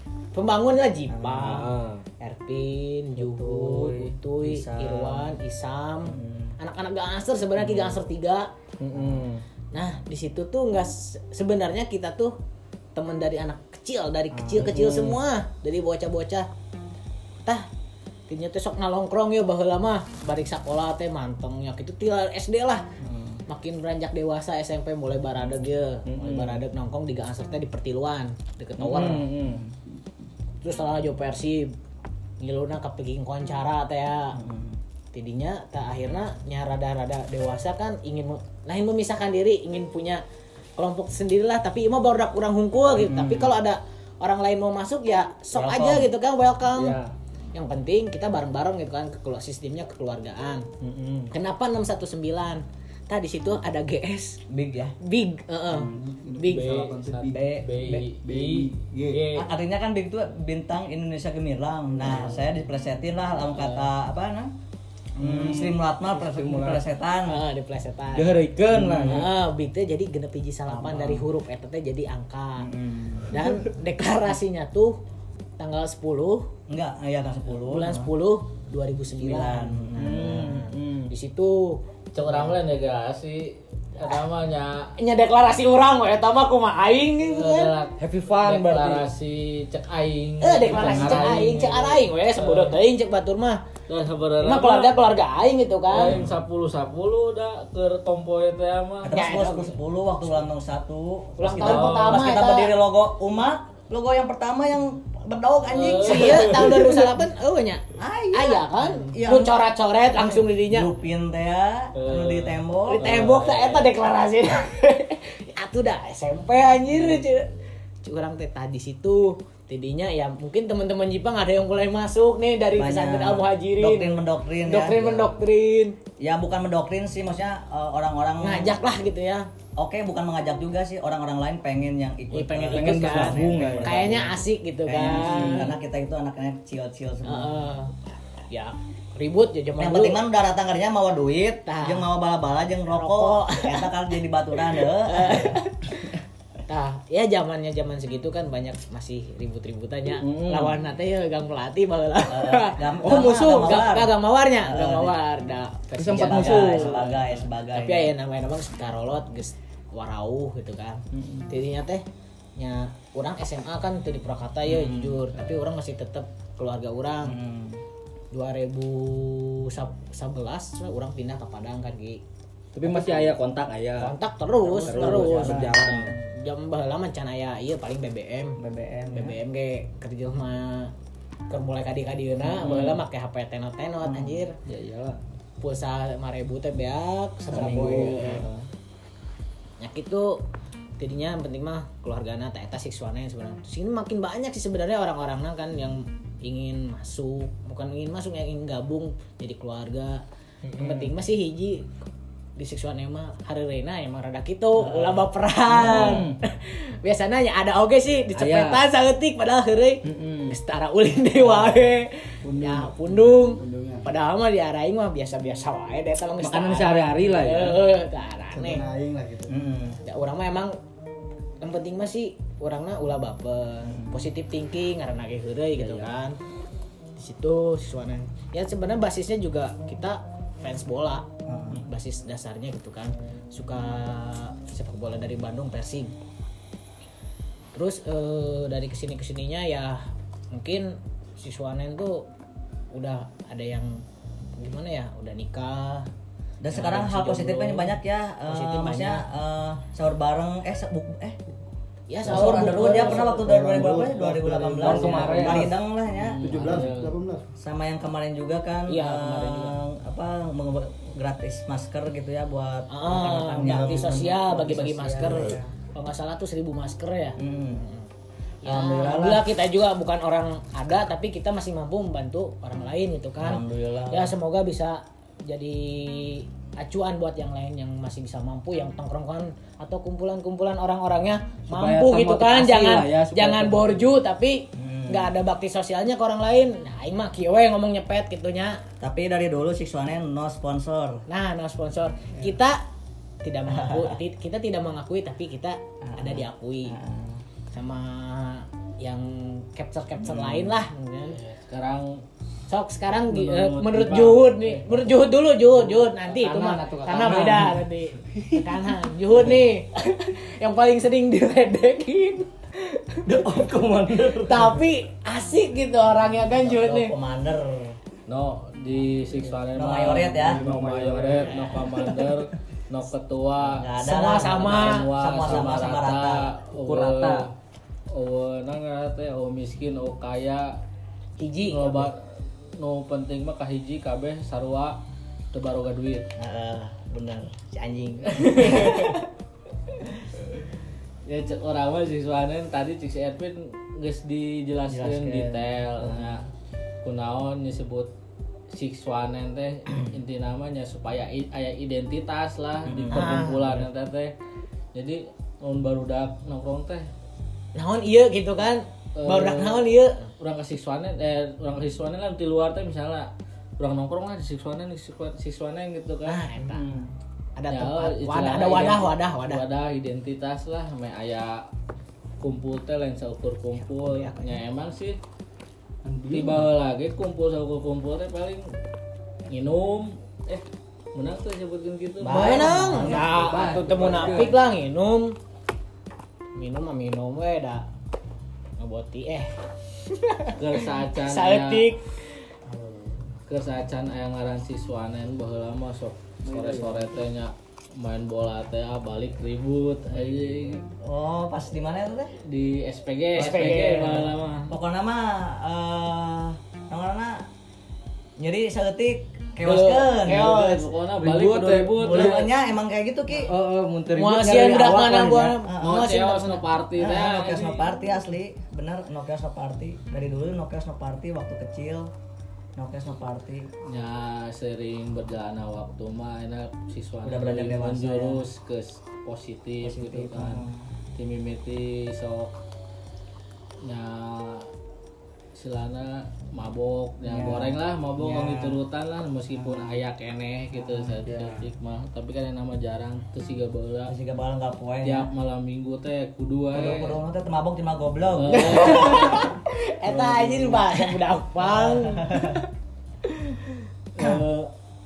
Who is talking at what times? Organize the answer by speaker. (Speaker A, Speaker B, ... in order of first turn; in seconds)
Speaker A: 0.3-1.7, 2.2-8.5, 9.7-12.3, 12.9-16.5, 18.3-22.9, 23.5-29.2, 30.6-31.7, 32.4-34.4, 35.1-40.2, 40.8-47.0, 47.5-50.6, 51.3-54.4, 55.0-57.0, 67.3-68.3, 69.1-72.7, 73.3-75.0, 75.6-76.5, 77.5-81.8, 85.0-87.7, 90.4-93.6, 94.4-96.2, 99.1-99.7, 101.4-102.7, 106.0-110.9, 112.9-117.5, 118.0-126.0, 128.4-129.5, 132.3-135.7, 137.2-137.9, 138.5-140.2, 141.7-142.1, 142.9-143.9, 144.6-145.8, 146.7-157.2, 157.7-162.0, 162.6-167.4, 168.3-172.2, 172.9-173.3, 174.0-180.9, 181.5-184.6, 185.6-188.5, 189.8-190.4, 191.0-200.2, 200.8-201.9, 202.6-218.8, 220.0-220.8, 221.6-226.4, 227.2-236.1, 237.7-242.3, 242.9-244.0, 244.6-246.1, 246.7-247.8, 248.5-249.2, 252.1-253.3, 258.9-259.8, 262.9-268.1, 268.6-288.8, 291.3-292.8, 293.4-297.0, 297.7-301.4, 302.7-313.4, 314.4-317.1, 321.5-321.8, 324.0-325.1, 331.4-332.1, 353.1-353.6, 357.8-360.3, 366.2-366.8, 367.6-369.6, 373.9-374.6, 382.3-385.4, 386.5-387.8, 388.8-389.5, 390.0-392.1, 403.4-404.7, 414.1-416.6, 448.5-452.6
Speaker B: 1.1-1.6, 3.2-5.4, 6.0-6.5, 7.5-8.0, 8.9-9.3, 14.3-14.9, 23.0-23.4, 34.3-34.8, 43.0-43.5, 45.5-46.1, 54.5-54.9, 57.3-58.0, 59.3-64.5, 65.2-67.4, 68.7-69.3, 70.7-71.2, 72.6-73.4, 76.7-78.1, 79.2-80.6, 99.0-106.8, 108.0-109.6, 110.3-113.1, 122.8-125.4, 126.2-128.8, 129.8-137.6, 139.8-145.6, 152.3-155.1, 156.1-158.1, 164.6-165.3, 167.2-167.8, 172.9-173.5, 174.7-176.1, 178.6-179.4, 184.0-184.4, 187.5-188.7, 204.8-205.2, 205.9-206.2, 219.5-220.0, 223.9-224.1, 231.4-231.8, 246.6-251.4, 252.2-256.4, 257.6-265.6, 267.4-267.8, 268.6-269.5, 273.4-274.3, 284.7-285.3, 289.0-291.2, 293.7-294.1, 296.0-297.4, 300.2-300.8, 316.4-318.0, 319.7-320.6, 323.8-326.5, 336.4-339.2, 344.9-346.4, 352.9-353.5, 382.2-383.8, 392.7-393.1, 401.0-402.3, 403.4-407.4, 408.4-410.6, 412.0-413.5, 415.6-416.1, 416.9-422.1, 422.8-423.7, 427.2-428.4, 429.8-430.8, 437.2-438.8, 439.6-439.9, 440.7-441.2, 444.1-445.3, 446.7-449.5, 450.1-450.9, 451.6-452.6, 454.2-454.4
Speaker C: 1.4-2.0, 8.8-9.4, 14.6-15.2, 26.1-26.6, 28.8-29.7, 46.7-47.1, 50.8-51.3, 55.7-57.4, 58.2-59.2, 65.2-66.8, 68.1-69.3, 79.9-81.1, 88.0-89.1, 90.7-91.6, 132.7-134.1, 135.0-135.7, 150.2-150.8, 156.0-157.2, 161.1-161.5, 172.7-174.2, 174.8-176.2, 182.6-183.0, 184.6-185.2, 187.5-188.4, 200.6-201.1, 205.7-206.3, 208.3-208.8, 210.0-210.5, 211.4-211.8, 216.4-217.8, 225.7-226.2, 254.8-255.7, 256.5-256.9, 281.7-283.9, 307.2-307.8, 308.3-308.8, 313.2-314.8, 320.4-322.4, 326.8-327.5, 366.6-367.1, 376.0-376.7, 382.7-384.6, 396.4-397.1, 410.3-412.5, 413.4-415.6, 441.2-441.7
Speaker D: 56.4-59.5, 82.1-84.9, 87.2-92.8, 93.9-94.9, 95.9-99.1, 101.5-102.3, 105.7-106.9, 112.0-113.9, 256.2-257.2, 301.3-302.2, 303.3-305.1, 305.9-307.7, 318.3-327.5, 328.1-330.8, 331.7-332.2, 332.8-335.0, 335.5-336.3, 338.3-339.2, 341.2-346.4, 347.0-348.1, 348.7-354.3, 354.9-357.1, 359.2-366.4, 367.7-371.6, 372.4-375.2, 376.3-378.6, 379.5-383.2, 390.5-391.9, 393.5-400.8, 402.4-404.7, 409.7-412.4, 415.8-417.8, 423.9-432.5, 433.8-434.7, 435.5-444.1, 445.0-447.2, 448.4-449.5, 454.1-454.7
Speaker E: 212.4-214.1, 218.5-219.5, 252.3-255.7, 256.3-257.5